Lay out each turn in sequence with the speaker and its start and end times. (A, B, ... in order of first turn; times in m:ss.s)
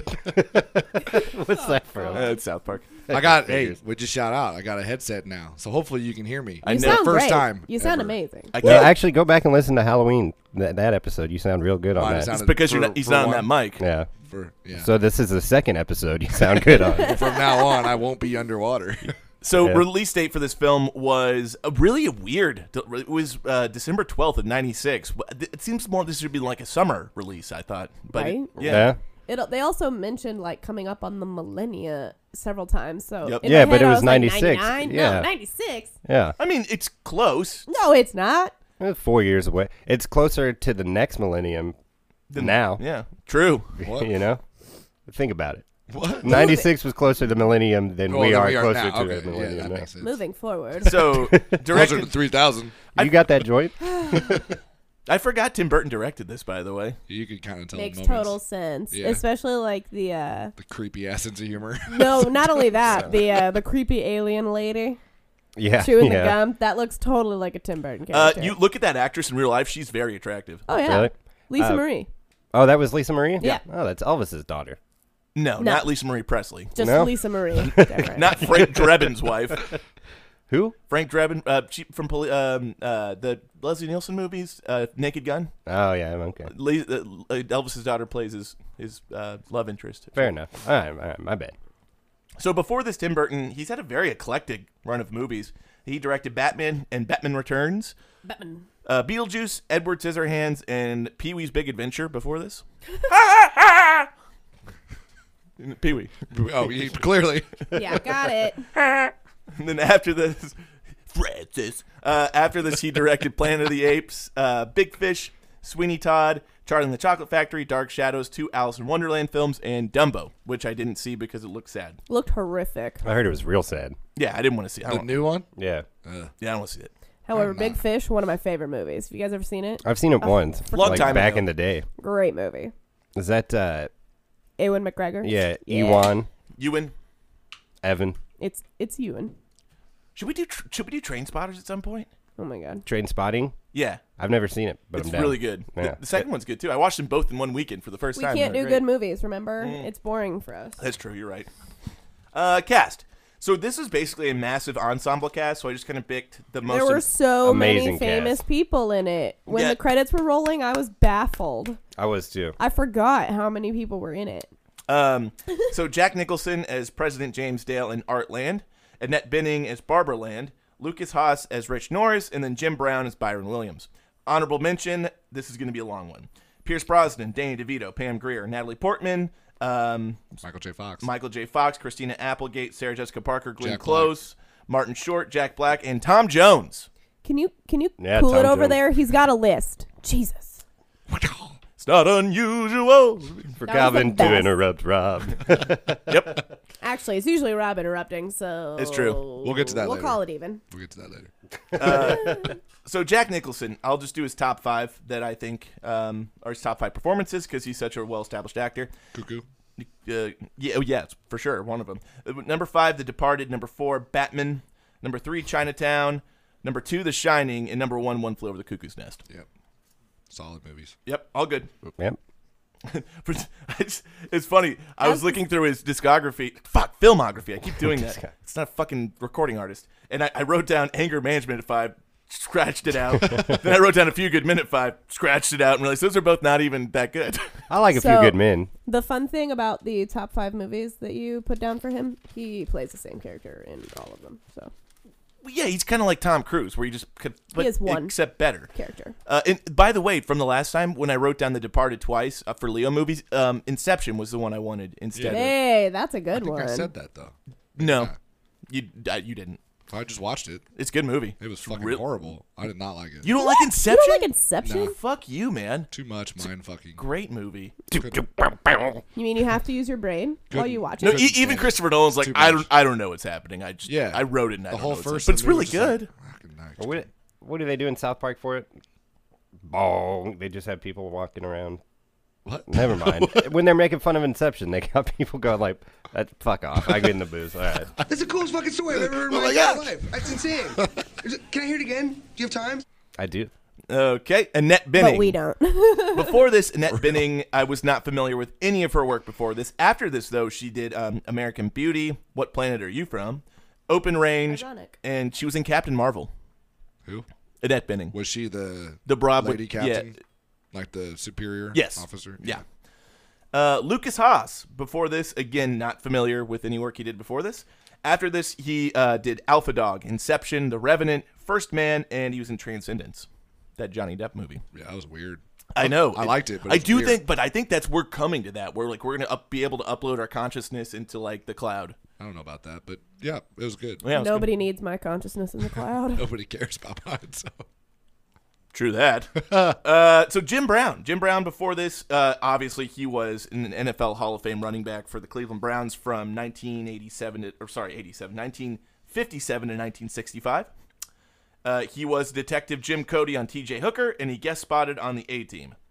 0:00.2-0:02.3 A
0:01.5-0:02.4 B
0:02.1-0:02.8 C
0:03.1-0:03.8 A
0:03.1-0:08.2 D
0:06.6-0:08.6 B
0:06.6-0:07.1 C
0:08.5-0:08.9 C
0:08.6-0:12.3 A
0:12.0-0:13.5 D
0:12.3-0:13.8 C
0:13.8-0:14.1 A
0:14.3-0:14.9 D
0:14.7-0:17.2 A
0:16.9-0:17.9 B
0:17.0-0:19.1 D
0:19.4-0:28.9 C
0:19.6-0:19.8 A
0:28.1-0:35.9 B
0:28.6-0:29.0 A
0:33.2-0:33.5 C
0:33.4-0:35.3 A
0:36.0-0:36.4 A
0:36.4-0:37.7 C
0:37.7-0:38.5 B
0:38.8-0:41.7 A
0:42.3-0:43.7 C
0:42.3-0:42.8 A
0:43.8-0:44.4 A
0:43.8-0:44.1 D
0:45.0-0:45.6 A
0:45.9-0:46.6 D
0:46.2-0:49.8 A
0:46.3-0:46.6 B
0:48.1-0:50.2 D
0:50.0-0:51.0 B
0:50.8-0:52.2 C
0:51.0-0:51.6 A
0:51.7-0:52.8 D
0:52.9-0:53.2 C
0:53.0-0:54.4 A
0:53.8-0:54.2 B
0:55.1-0:57.0 C
0:57.1-0:58.3 D
0:57.7-1:00.5 B
0:58.9-0:59.2 D
1:00.6-1:03.2 D
1:01.8-1:05.0 B
1:05.6-1:06.4 A
1:05.8-1:08.6 B
1:08.1-1:10.6 C
1:10.7-1:12.1 B
1:10.7-1:11.8 A
1:12.5-1:14.8 A
1:15.3-1:17.0 C
1:15.6-1:15.9 B
1:16.7-1:18.6 B
1:16.8-1:19.1 A
1:18.1-1:19.7 C
1:20.5-1:20.8 A
1:20.9-1:25.5 C
1:25.6-1:26.5 A
1:26.5-1:30.3 C
1:30.2-1:31.6 A
1:32.4-1:37.9 C
1:38.2-1:38.6 B
1:38.8-1:44.1 C
1:45.6-1:46.1 C
1:46.3-1:48.0 D
1:47.7-1:48.6 B
1:48.8-1:50.5 C
1:51.1-2:02.0 C
2:02.1-2:03.0 B
2:03.0-2:04.0 A
2:04.2-2:05.2 C
2:04.8-2:05.5 D
2:05.6-2:05.8 A
2:06.0-2:06.3 D
2:06.4-2:06.9 C
2:07.2-2:11.2 B
2:07.3-2:07.8 D
2:09.8-2:11.8 A
2:10.7-2:11.4 C
2:12.0-2:12.7 B
2:13.2-2:13.9 A
2:14.6-2:16.2 B
2:15.2-2:16.3 A
2:16.6-2:16.9 C
2:17.8-2:18.2 A
2:18.4-2:19.3 B
2:20.2-2:22.1 C
2:22.4-2:22.8 B
2:22.8-2:23.6 A
2:23.7-2:24.0 C
2:24.2-2:26.2 A
2:25.0-2:28.8 C
2:28.1-2:30.8 B
2:29.6-2:29.9 C
2:30.8-2:31.5 C
2:32.3-2:37.0 C
2:36.7-2:41.8 B
2:37.4-2:38.4 A
2:39.5-2:39.8 C
2:41.9-2:42.6 A
2:42.6-2:44.5 B
2:44.9-3:00.4 C
3:00.4-3:01.1 D
3:01.0-3:06.9 C
3:03.6-3:04.1 D
3:07.2-3:10.6 B
3:08.0-3:08.8 A
3:11.1-3:11.5 D
3:11.8-3:13.6 C
3:13.6-3:16.0 A
3:13.6-3:14.5 B
3:16.1-3:16.4 C
3:16.8-3:20.6 B
3:18.8-3:19.2 C
3:19.4-3:21.3 D
3:21.7-3:28.9 C
3:21.8-3:22.2 A
3:21.9-3:22.5 B
3:29.1-3:29.4 D
3:29.8-3:39.2 C
3:40.3-3:40.9 D
3:41.0-3:41.7 C
3:42.9-3:57.5 C
3:45.0-3:45.4 B
3:47.8-3:48.3 A
3:57.7-3:58.7 A
3:57.9-4:04.7 B
4:05.4-4:08.7 C
4:07.6-4:08.2 B
4:08.7-4:09.1 B
4:09.3-4:15.5 C
4:15.1-4:15.5 D
4:15.2-4:16.9 B
4:16.3-4:18.1 D
4:17.8-4:18.1 C
4:18.7-4:19.6 C
4:19.9-4:20.6 D
4:20.8-4:22.0 C
4:21.4-4:23.3 D
4:23.2-4:24.3 C
4:23.3-4:24.9 B
4:24.6-4:24.9 D
4:24.9-4:25.9 C
4:25.9-4:27.0 D
4:27.0-4:27.8 C
4:27.9-4:28.3 D
4:27.9-4:29.0 A
4:29.2-4:31.2 B
4:30.5-4:32.7 D
4:31.0-4:36.1 C
4:33.8-4:37.0 D
4:36.8-4:38.7 A
4:39.6-4:41.8 A
4:42.4-4:43.6 D
4:42.7-4:47.9 A
4:46.9-4:47.1 D
4:48.1-4:52.8 E
4:48.9-4:50.0 D
4:53.2-4:53.5 A
4:53.9-4:55.4 C
4:55.0-4:56.4 B
4:56.1-5:06.3 C
4:56.9-4:57.2 D
5:04.5-5:04.9 B
5:07.6-5:08.1 C
5:08.1-5:10.1 D
5:09.0-5:10.1 C
5:10.7-5:12.6 D
5:11.7-5:12.6 C
5:13.5-5:23.3 C
5:23.8-5:24.6 C
5:24.7-5:27.2 D
5:25.8-5:31.9 C
5:32.2-5:34.0 D
5:34.0-5:34.5 C
5:34.1-5:36.2 B
5:36.2-5:37.6 D
5:38.7-5:50.7 C
5:39.4-5:39.8 D
5:51.6-5:55.7 C